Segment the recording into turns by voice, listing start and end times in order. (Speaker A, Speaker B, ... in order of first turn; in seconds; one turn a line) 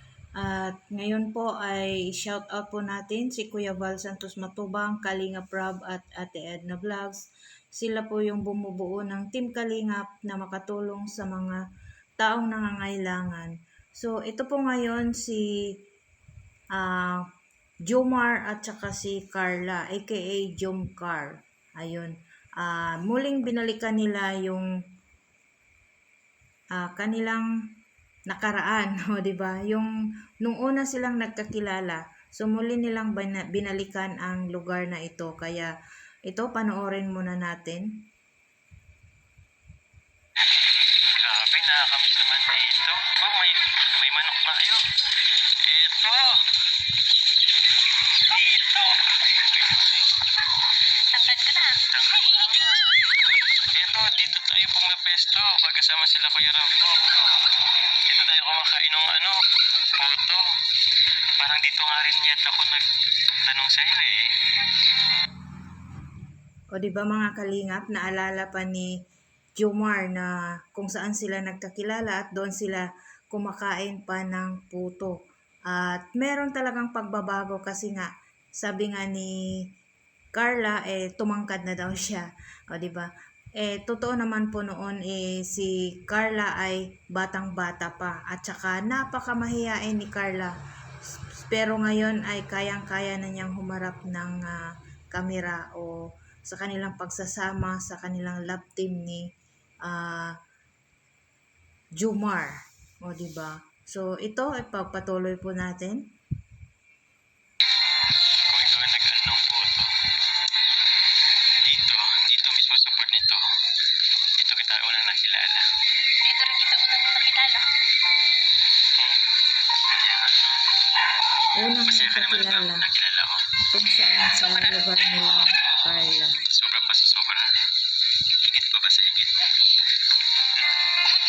Speaker A: 0.4-7.2
Speaker A: 7.8-11.6
Speaker A: 12.2-15.4
Speaker A: 16.8-17.2
Speaker A: 17.9-24.7
Speaker A: 26.8-27.5
Speaker A: 28.3-29.9
Speaker A: 30.4-35.7
Speaker A: 36.3-37.8
Speaker B: 41.2-44.8
Speaker B: 45.6-46.4
Speaker B: 48.2-50.0
Speaker C: 51.1-52.7
Speaker B: 51.9-52.8
Speaker B: 53.7-57.1
Speaker B: 58.1-59.3
Speaker B: 60.0-60.4
Speaker B: 61.4-62.8
Speaker B: 63.4-64.2
Speaker A: 66.7-68.9
Speaker A: 69.6-75.2
Speaker A: 75.7-78.1
Speaker A: 78.6-79.3
Speaker A: 80.3-83.1
Speaker A: 83.6-90.5
Speaker A: 91.5-95.9
Speaker A: 96.5-99.2
Speaker A: 99.8-100.3
Speaker A: 102.0-106.0
Speaker B: 108.5-109.9
Speaker B: 111.6-113.4
Speaker B: 114.4-115.6
Speaker C: 116.2-117.6
Speaker B: 119.9-120.3
Speaker A: 121.6-122.9
Speaker B: 121.8-123.4
Speaker A: 123.7-126.4
Speaker B: 126.5-127.5
Speaker B: 128.4-129.4